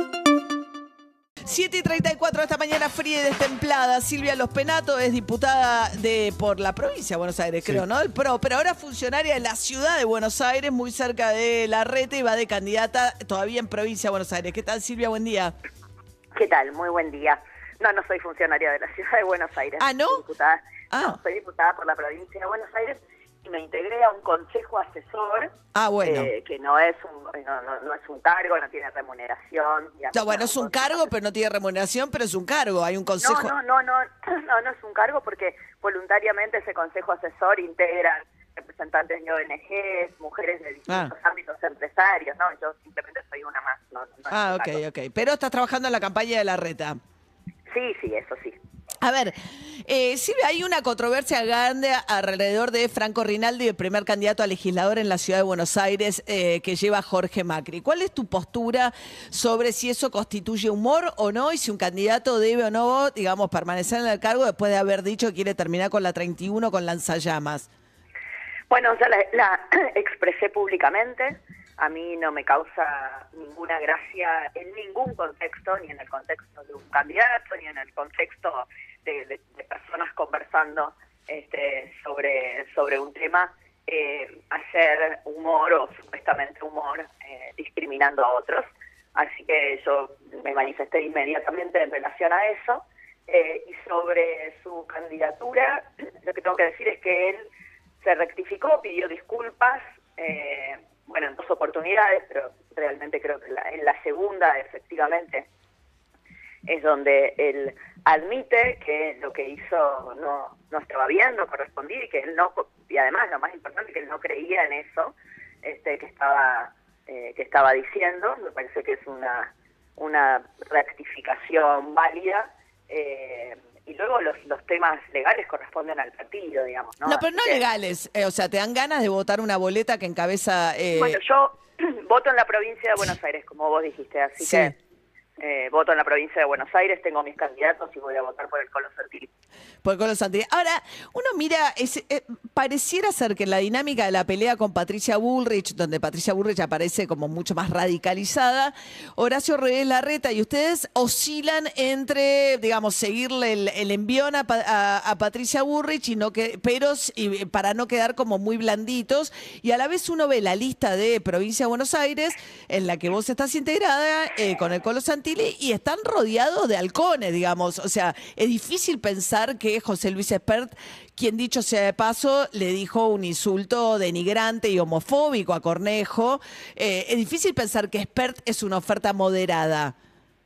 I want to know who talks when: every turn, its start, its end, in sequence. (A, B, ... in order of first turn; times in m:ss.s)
0:01.4-0:15.5 A
0:16.3-0:25.5 B
0:19.8-0:20.2 A
0:20.9-0:21.2 A
0:25.7-0:26.3 A
0:26.0-0:31.1 B
0:30.1-0:33.5 A
0:33.2-0:44.8 B
0:40.9-0:41.1 A
0:44.3-0:47.0 A
0:47.7-0:48.6 B
0:49.0-1:07.7 A
1:08.7-1:37.4 B
1:38.0-1:45.5 B
1:46.6-2:07.6 B
2:07.0-2:11.2 A
2:11.0-2:14.7 B
2:14.4-2:14.7 A
2:15.4-2:19.3 B
2:19.8-2:59.9 A